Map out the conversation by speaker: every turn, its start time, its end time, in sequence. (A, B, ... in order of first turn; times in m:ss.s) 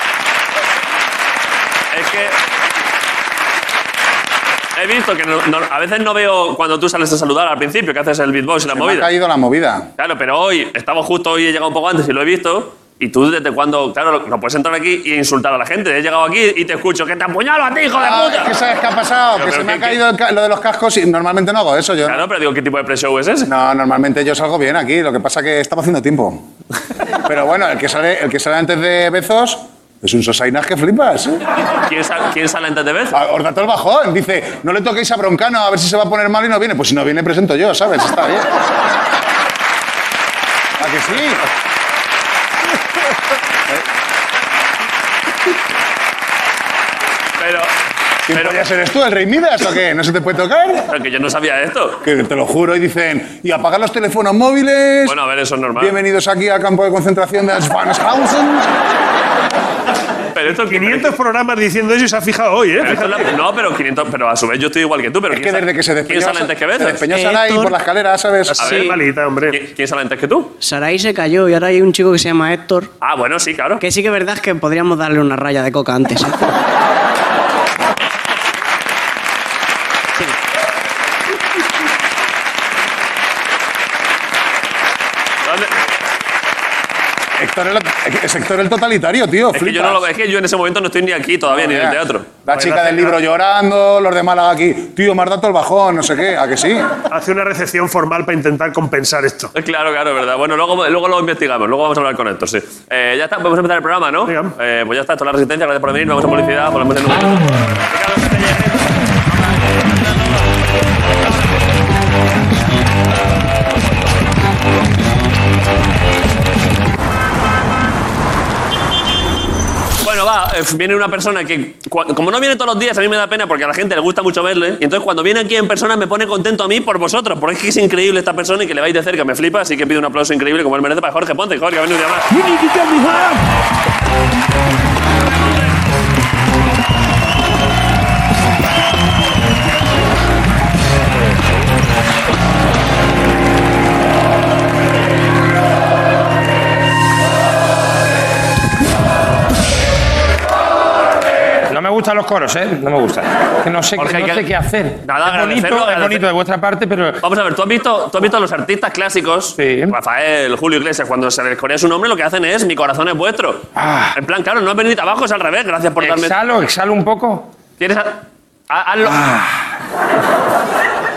0:01.9-0:02.4 A
0:04.8-0:09.1 A
0:08.7-0:09.9 B
0:10.0-0:18.5 A
0:18.0-0:22.2 B
0:19.4-0:20.0 A
0:22.0-0:23.5 A
0:23.5-0:26.4 B
0:27.3-0:31.4 B
0:31.8-0:33.2 A
0:33.1-0:38.5 B
0:40.8-0:41.4 B
0:47.4-0:47.7 A
0:48.3-0:50.9 B
0:48.3-0:48.7 A
0:50.9-0:52.0 A
0:52.0-0:55.2 B
0:55.1-0:56.0 A
0:55.8-0:58.7 B
1:00.4-1:01.1 A
1:00.5-1:03.3 C
1:02.8-1:07.0 A
1:05.3-1:08.8 B
1:07.1-1:07.8 D
1:08.5-1:09.6 C
1:08.6-1:09.0 A
1:08.6-1:09.0 D
1:09.5-1:10.5 A
1:10.6-1:12.9 D
1:13.0-1:13.8 A
1:13.8-1:16.4 D
1:25.4-1:25.7 A
1:27.4-1:30.0 B
1:29.5-1:32.3 A
1:31.5-1:36.9 B
1:32.5-1:33.2 C
1:37.1-1:39.5 C
1:39.5-1:50.5 A
1:44.2-1:44.5 C
2:00.0-2:12.3 A
2:31.7-2:37.2 E
2:34.0-2:34.5 A
2:35.0-2:36.2 A
2:37.2-2:46.4 A
2:39.6-2:40.0 E
2:43.8-2:44.2 E
2:46.0-2:47.5 E
2:47.8-2:49.2 A
2:49.0-2:49.8 E